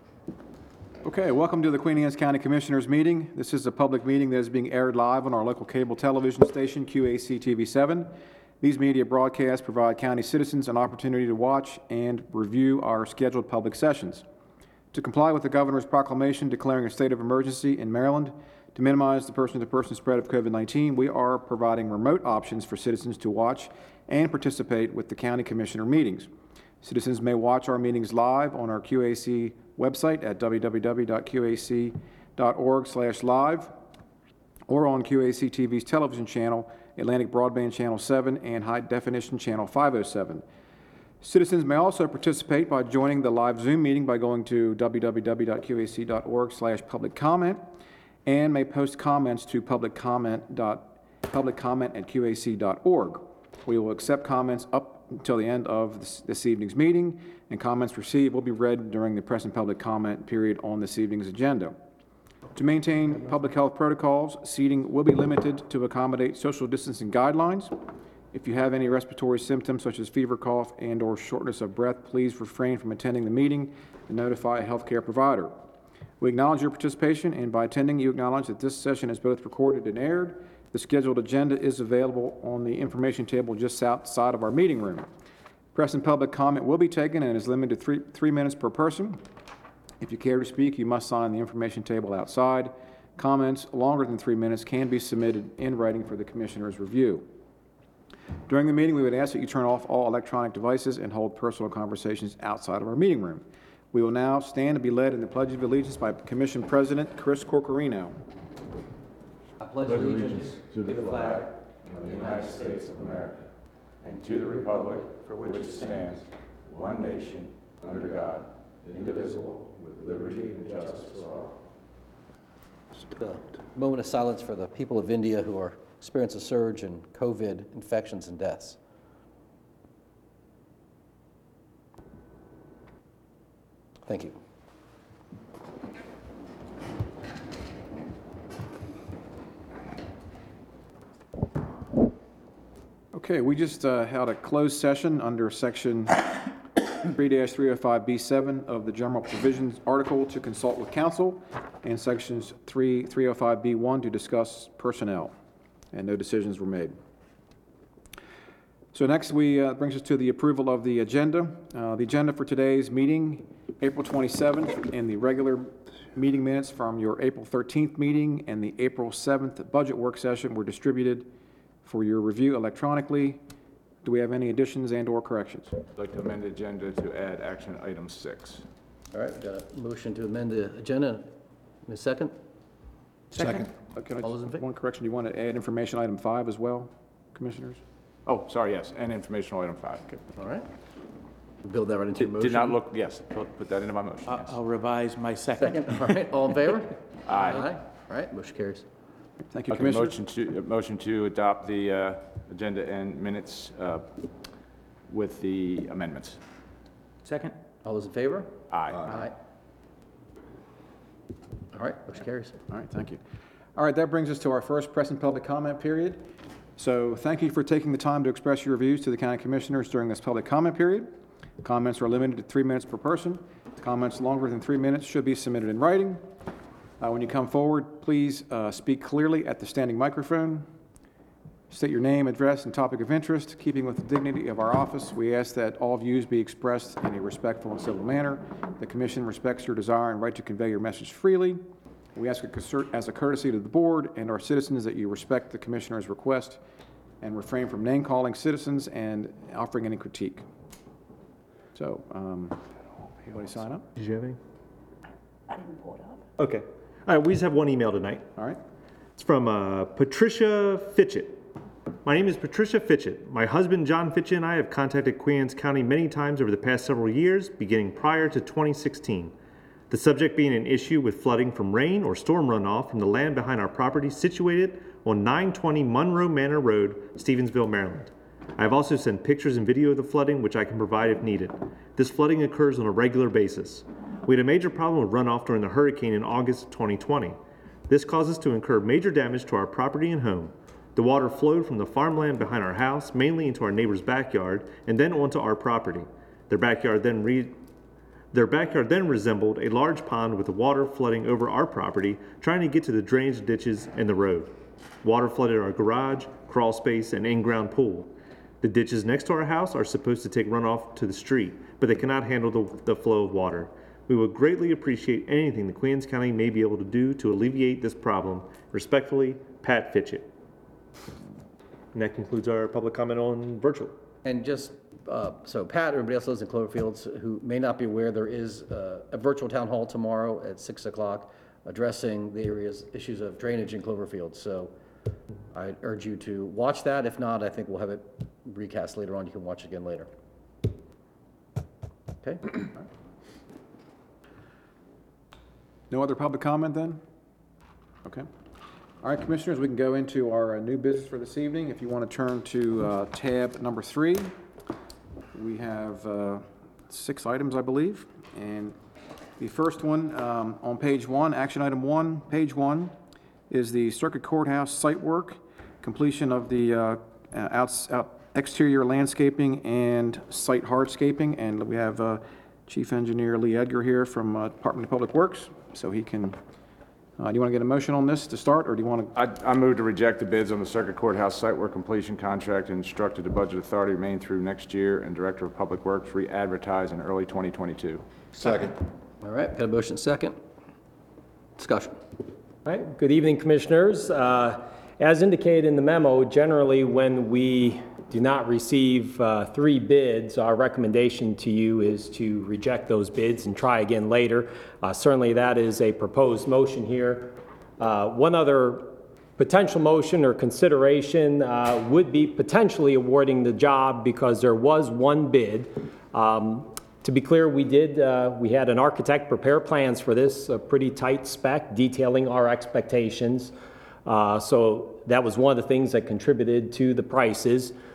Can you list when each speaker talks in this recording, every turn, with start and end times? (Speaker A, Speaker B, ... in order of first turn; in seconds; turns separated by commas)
Speaker A: 1.0-8.1, Speaker A: 8.6-14.2, Speaker A: 14.9-26.3, Speaker A: 26.8-33.7, Speaker A: 34.7-40.4, Speaker A: 41.2-47.6, Speaker A: 48.2-61.8, Speaker A: 62.5-67.7, Speaker A: 68.3-75.5, Speaker A: 76.2-85.1, Speaker A: 85.7-89.2, Speaker A: 90.0-97.2, Speaker A: 98.5-108.2, Speaker B: 109.6-110.2, Speaker C: 109.8-113.3, Speaker C: 114.0-121.5, Speaker B: 123.2-128.8, Speaker B: 134.1-134.4, Speaker A: 143.1-146.2, Speaker A: 147.0-155.3, Speaker A: 155.9-156.9, Speaker A: 158.9-171.3, Speaker A: 171.8-173.4, Speaker A: 174.0-175.7, Speaker C: 175.9-178.6, Speaker B: 179.1-181.3, Speaker B: 181.8-182.3, Speaker A: 183.3-187.8, Speaker B: 184.2-184.6, Speaker C: 188.2-190.0, Speaker B: 190.3-190.6, Speaker B: 191.6-192.8, Speaker C: 192.2-194.6, Speaker D: 194.3-196.2, Speaker B: 195.6-198.8, Speaker C: 197.3-197.6, Speaker A: 199.5-200.2, Speaker C: 199.7-204.1, Speaker C: 205.1-206.4, Speaker D: 207.2-207.5, Speaker B: 207.8-208.5, Speaker C: 208.7-209.1, Speaker B: 211.7-212.5, Speaker A: 212.7-213.2, Speaker A: 213.8-216.2, Speaker A: 216.8-221.1, Speaker A: 221.6-226.2, Speaker A: 227.0-230.7, Speaker A: 231.7-241.6, Speaker A: 242.1-246.6, Speaker A: 247.2-250.4, Speaker A: 251.7-252.6, Speaker A: 253.2-253.8, Speaker E: 253.9-254.4, Speaker E: 256.4-258.2, Speaker E: 259.2-261.4, Speaker E: 262.0-269.3, Speaker E: 269.9-297.5, Speaker E: 298.3-304.5, Speaker E: 305.0-308.1, Speaker E: 308.6-320.3, Speaker E: 321.9-323.9, Speaker B: 324.2-334.7, Speaker B: 335.5-340.1, Speaker B: 342.2-342.6, Speaker A: 345.9-347.0, Speaker A: 349.0-354.3, Speaker A: 355.3-358.8, Speaker A: 359.4-362.9, Speaker A: 363.5-376.4, Speaker A: 377.2-379.1, Speaker C: 379.1-388.0, Speaker B: 389.2-390.4, Speaker B: 391.6-392.0, Speaker F: 392.6-423.5, Speaker F: 424.1-427.7